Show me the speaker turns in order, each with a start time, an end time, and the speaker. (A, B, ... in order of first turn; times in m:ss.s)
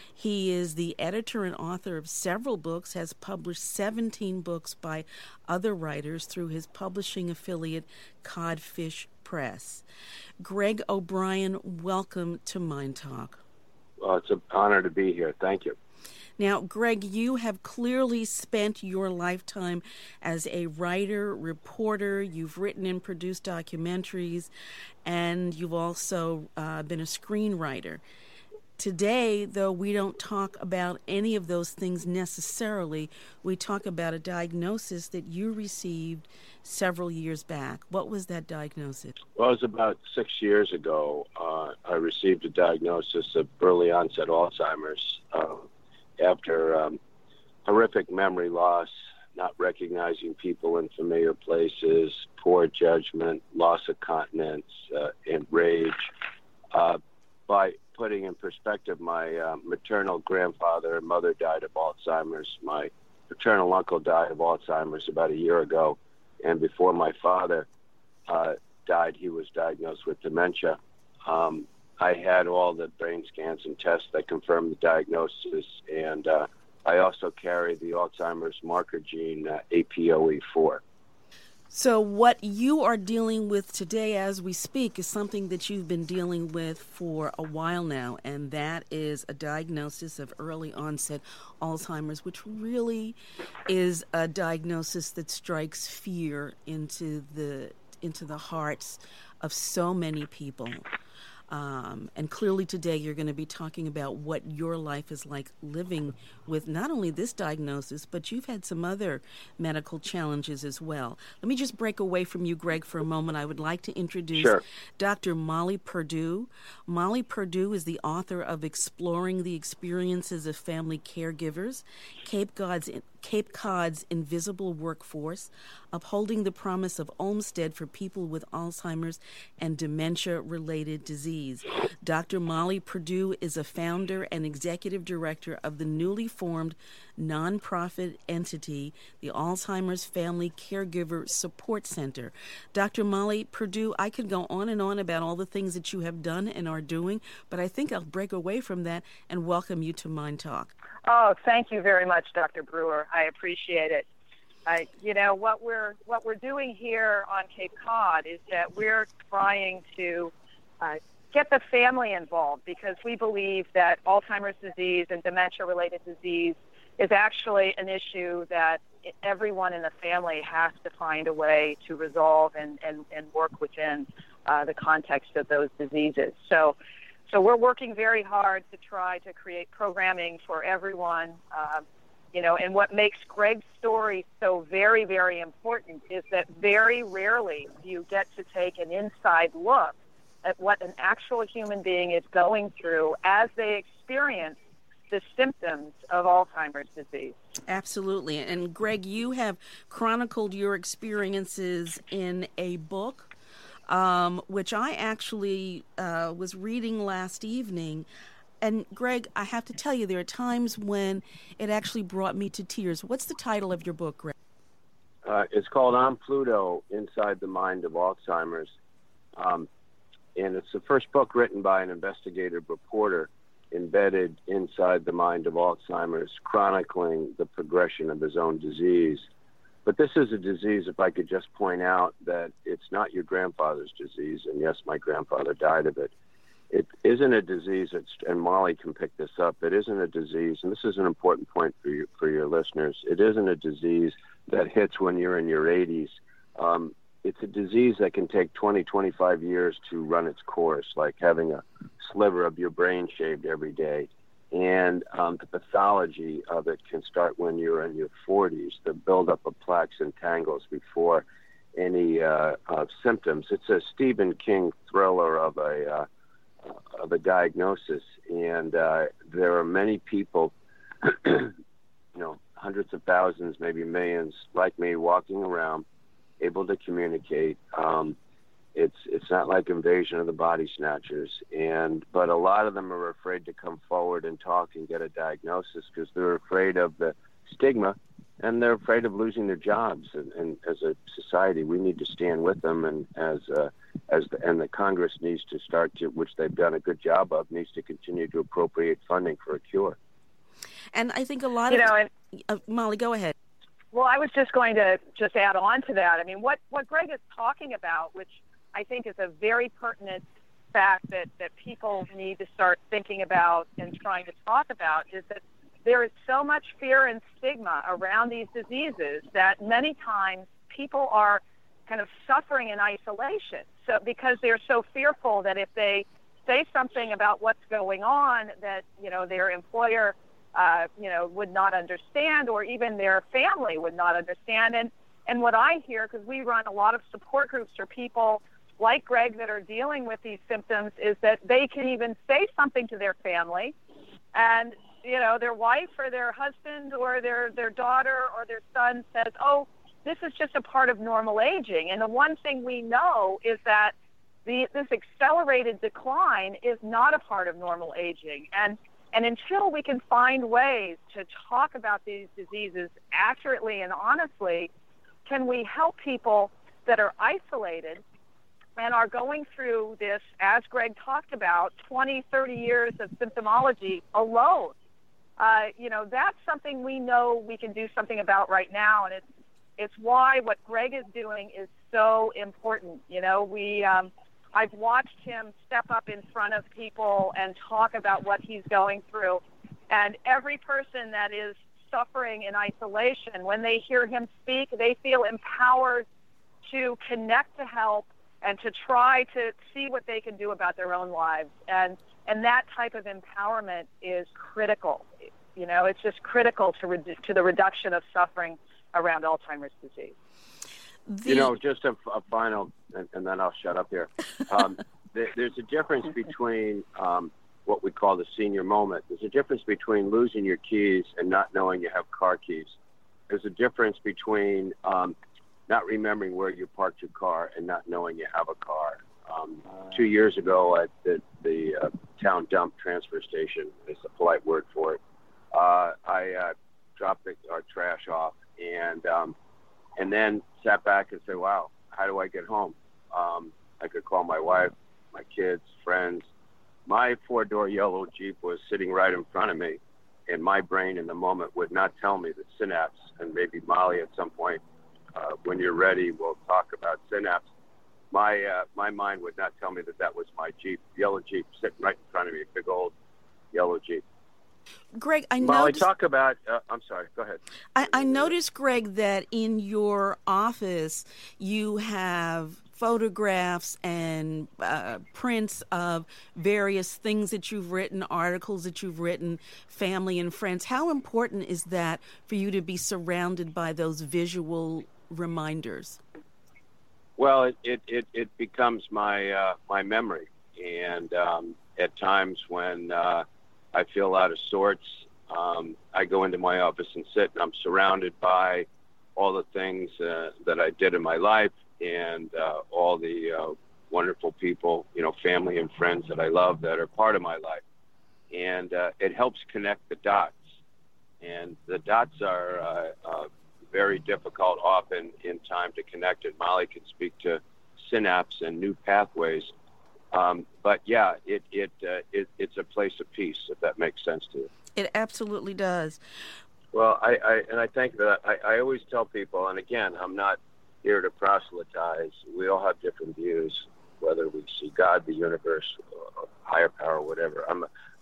0:00.2-0:09.8 A
0:10.4-0:13.4 A
0:14.0-0:15.8 B
0:16.4-0:24.5 A
0:25.0-0:28.0 A
0:28.8-0:39.2 A
0:39.4-0:45.7 B
0:46.2-0:47.0 B
0:47.6-0:56.1 B
0:56.7-1:07.7 B
1:08.3-1:20.8 B
1:21.7-1:33.2 A
1:33.7-1:40.9 A
1:41.5-2:30.7 A
1:54.4-1:54.6 B
2:31.0-2:34.1 C
2:34.7-2:56.8 C
2:57.3-3:14.6 C
3:15.1-3:17.4 C
3:17.7-3:23.3 A
3:23.9-3:28.1 A
3:28.6-3:34.4 A
3:35.2-3:38.7 B
3:39.4-3:39.7 B
3:40.4-3:49.3 B
3:49.8-3:56.1 B
3:56.7-4:26.1 B
4:26.6-4:31.6 B
4:32.1-4:35.8 B
4:36.4-4:38.2 B
4:38.8-5:00.0 B
5:00.9-5:03.3 A
5:01.7-5:02.1 C
5:03.9-5:43.8 C
5:44.3-5:53.9 C
5:54.4-6:04.7 C
6:05.3-6:08.0 C
6:08.8-6:14.7 C
6:15.4-6:19.2 C
6:19.8-6:36.1 C
6:36.6-6:50.2 C
6:51.1-6:51.5 A
6:51.3-7:02.8 B
7:03.3-7:05.2 B
7:05.7-7:15.0 B
7:15.5-7:19.4 B
7:20.0-7:26.3 B
7:26.9-7:34.6 B
7:35.1-7:37.4 B
7:38.1-7:42.9 B
7:43.5-7:44.0 B
7:45.0-7:45.9 A
7:45.4-7:48.3 B
7:47.8-8:06.0 A
8:07.2-8:27.6 B
8:28.3-8:30.4 B
8:31.2-8:39.5 B
8:40.1-8:44.5 B
8:44.8-8:46.0 A
8:46.7-8:57.7 B